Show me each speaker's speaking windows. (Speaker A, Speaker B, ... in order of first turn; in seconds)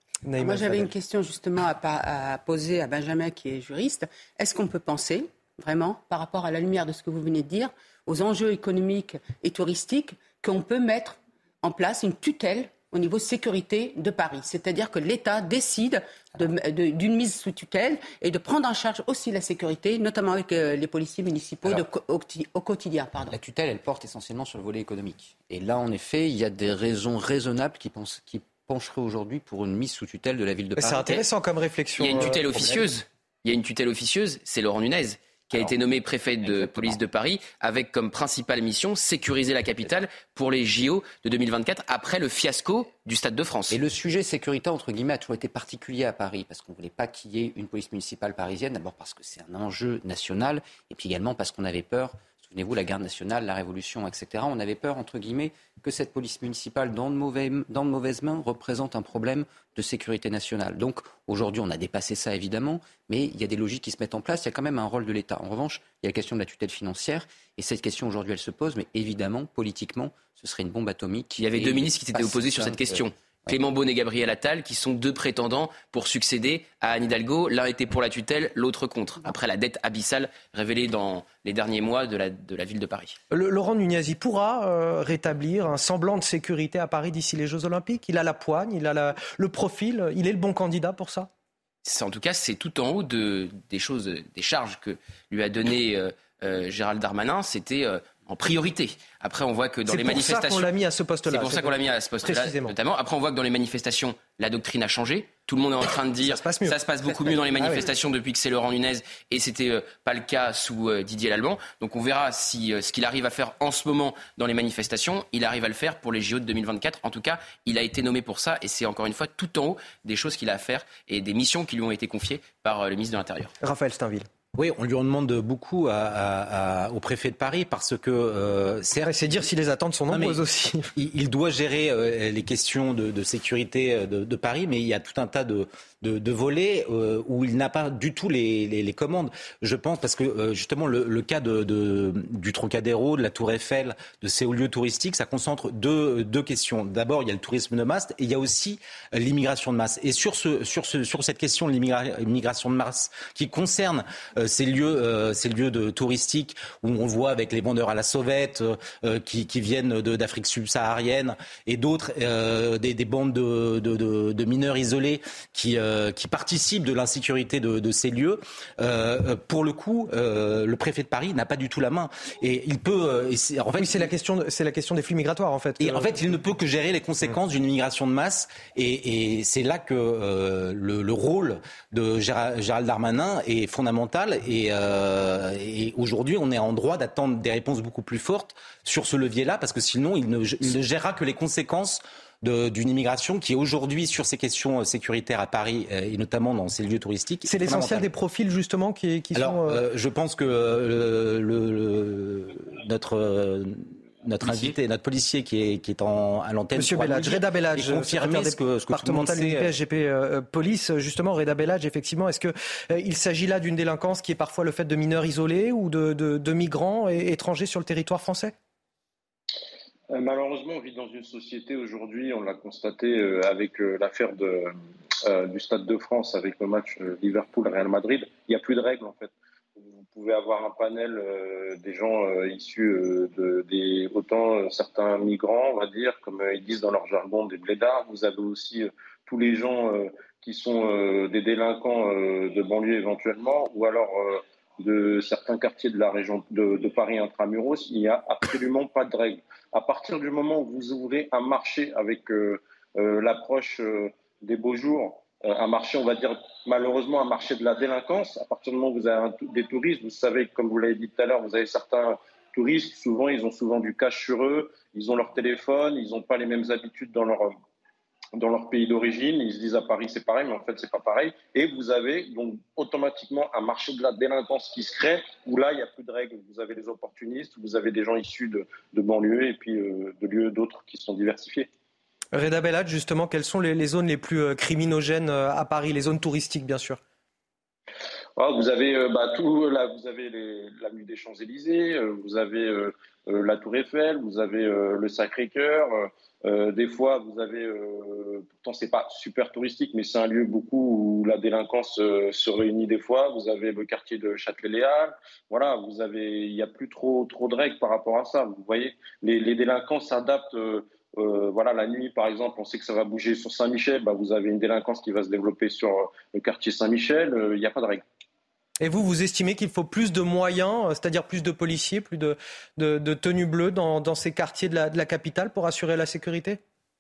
Speaker A: 0.2-0.9, 30.8-32.9, 83.3-91.3, 99.9-102.7, 106.2-107.9, 123.6-124.3, 129.0-130.9, 173.8-176.2, 197.4-199.8, 206.8-218.5, 282.3-287.0, 318.8-326.6
Speaker B: 0.4-23.4
Speaker C: 23.3-31.1, 36.4-37.0, 43.7-73.6
Speaker D: 32.0-43.8, 71.4-83.2, 91.8-100.7, 101.3-123.5, 204.4-204.8
Speaker E: 124.5-129.4, 130.1-130.4, 130.9-174.1, 175.8-198.1, 199.3-209.7
Speaker F: 220.1-224.7, 225.2-267.5, 268.4-281.7, 288.4-318.0